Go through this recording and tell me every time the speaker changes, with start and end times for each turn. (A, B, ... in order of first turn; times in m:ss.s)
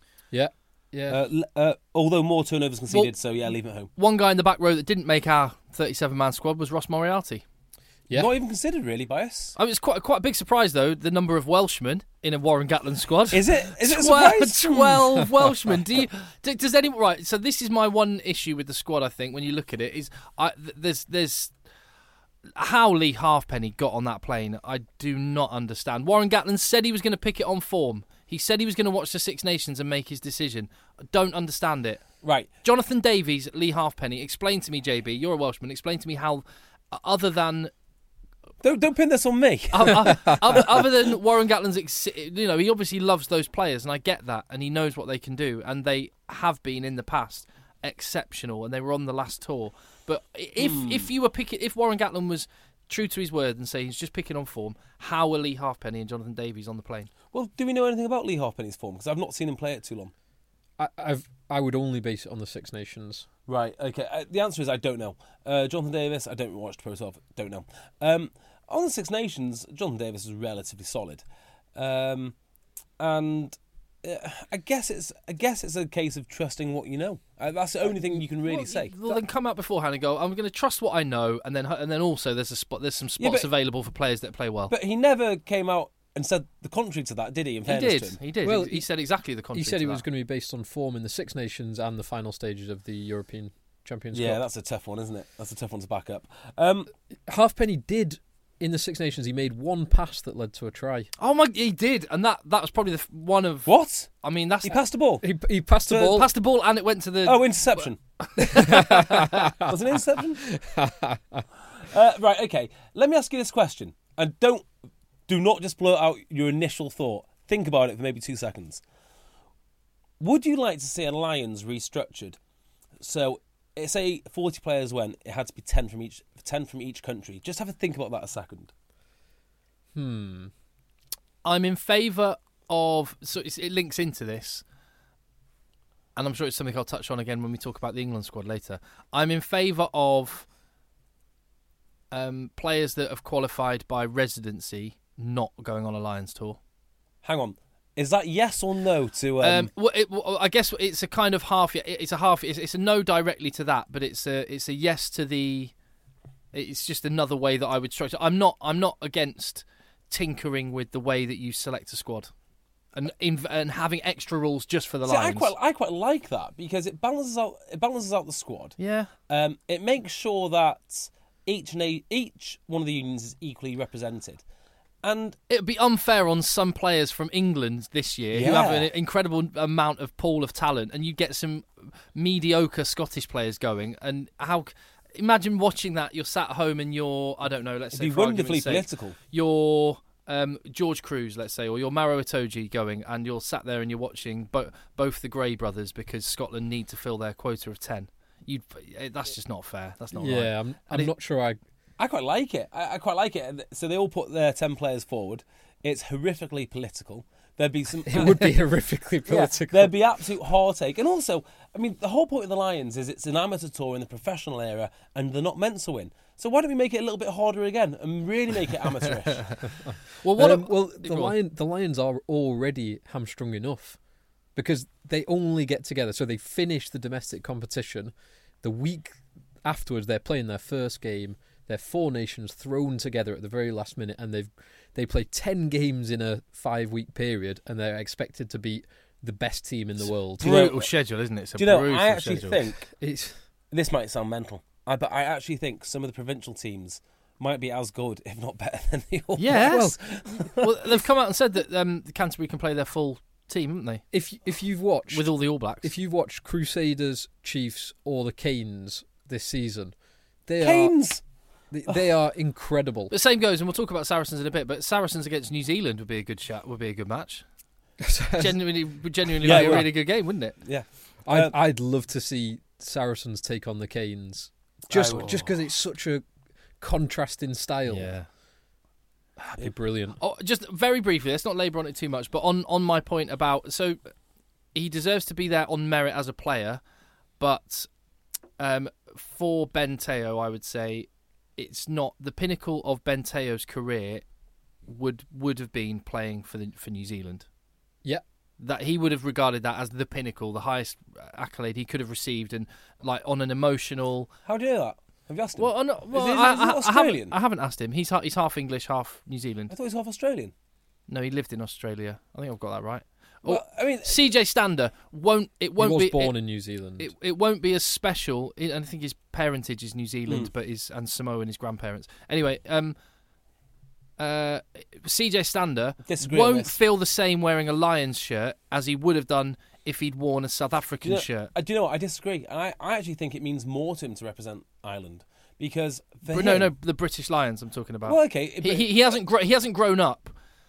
0:00.3-0:01.2 A
0:01.1-0:03.9 B
0:04.0-0:07.4 C
0:08.1-0:09.5 B
0:09.6-0:21.5 C
0:13.3-0:15.2 B
0:22.6-0:32.1 C
0:32.2-0:32.5 B
0:32.6-0:37.7 C
0:38.6-0:40.9 B
0:39.7-0:57.1 C
0:50.6-0:51.1 B
0:57.3-1:00.1 B
1:00.8-1:03.3 A
1:03.5-1:11.2 B
1:11.8-1:12.3 B
1:13.0-1:18.9 B
1:18.4-1:24.7 C
1:23.2-1:23.5 B
1:24.7-1:28.2 B
1:27.6-1:30.0 C
1:28.4-1:28.9 A
1:29.5-1:34.4 A
1:34.1-1:36.9 B
1:37.3-1:41.1 A
1:41.2-1:44.8 C
1:43.7-1:44.1 B
1:44.6-1:45.2 B
1:45.2-1:46.3 A
1:45.9-1:46.2 B
1:46.0-1:49.4 C
1:47.2-1:48.0 B
1:48.4-1:49.7 A
1:49.6-1:50.4 B
1:50.5-1:51.4 A
1:51.9-1:54.7 B
1:55.3-1:58.8 B
2:00.2-2:02.4 B
2:03.0-2:08.7 B
2:09.9-2:10.5 A
2:11.4-2:14.6 C
2:16.2-2:20.5 C
2:22.1-2:26.6 C
2:27.2-2:29.7 B
2:29.4-2:35.7 C
2:36.5-2:42.3 C
2:42.9-2:45.5 C
2:45.0-2:48.8 B
2:48.8-2:49.1 C
2:49.3-2:54.4 B
2:55.0-2:55.4 B
2:55.5-3:21.1 C
2:58.3-2:58.9 B
3:07.9-3:09.2 B
3:20.1-3:21.6 A
3:22.0-3:28.6 B
3:28.0-3:30.0 A
3:29.3-3:39.6 B
3:40.2-3:41.3 C
3:40.4-3:44.0 A
3:44.5-4:00.6 A
4:00.4-4:02.7 C
4:00.4-4:00.9 B
4:01.6-4:02.9 B
4:03.0-4:03.4 A
4:03.7-4:10.7 B
4:09.4-4:09.9 C
4:09.7-4:10.5 A
4:10.6-4:14.0 C
4:14.1-4:19.9 A
4:15.1-4:15.9 C
4:20.4-4:21.0 A
4:20.6-4:21.2 B
4:21.7-4:23.1 A
4:23.1-4:27.4 C
4:28.0-4:28.7 A
4:28.4-4:30.6 C
4:29.4-4:29.9 A
4:29.4-4:31.5 B
4:31.2-4:36.2 A
4:34.9-4:35.5 B
4:35.1-4:35.4 C
4:36.8-4:38.1 A
4:37.9-4:38.3 C
4:39.5-4:40.2 A
4:40.2-4:44.0 C
4:44.7-4:46.8 C
4:47.4-4:47.9 C
4:48.6-4:54.2 C
4:54.9-4:57.4 C
4:58.6-5:04.3 C
5:04.4-5:07.3 B
5:05.6-5:09.7 C
5:09.7-5:10.5 B
5:11.1-5:16.4 C
5:13.4-5:14.2 B
5:15.8-5:17.1 A
5:17.0-5:23.0 C
5:24.2-5:31.5 C
5:26.0-5:26.7 B
5:31.0-5:36.7 B
5:36.3-5:40.3 C
5:38.1-5:39.2 B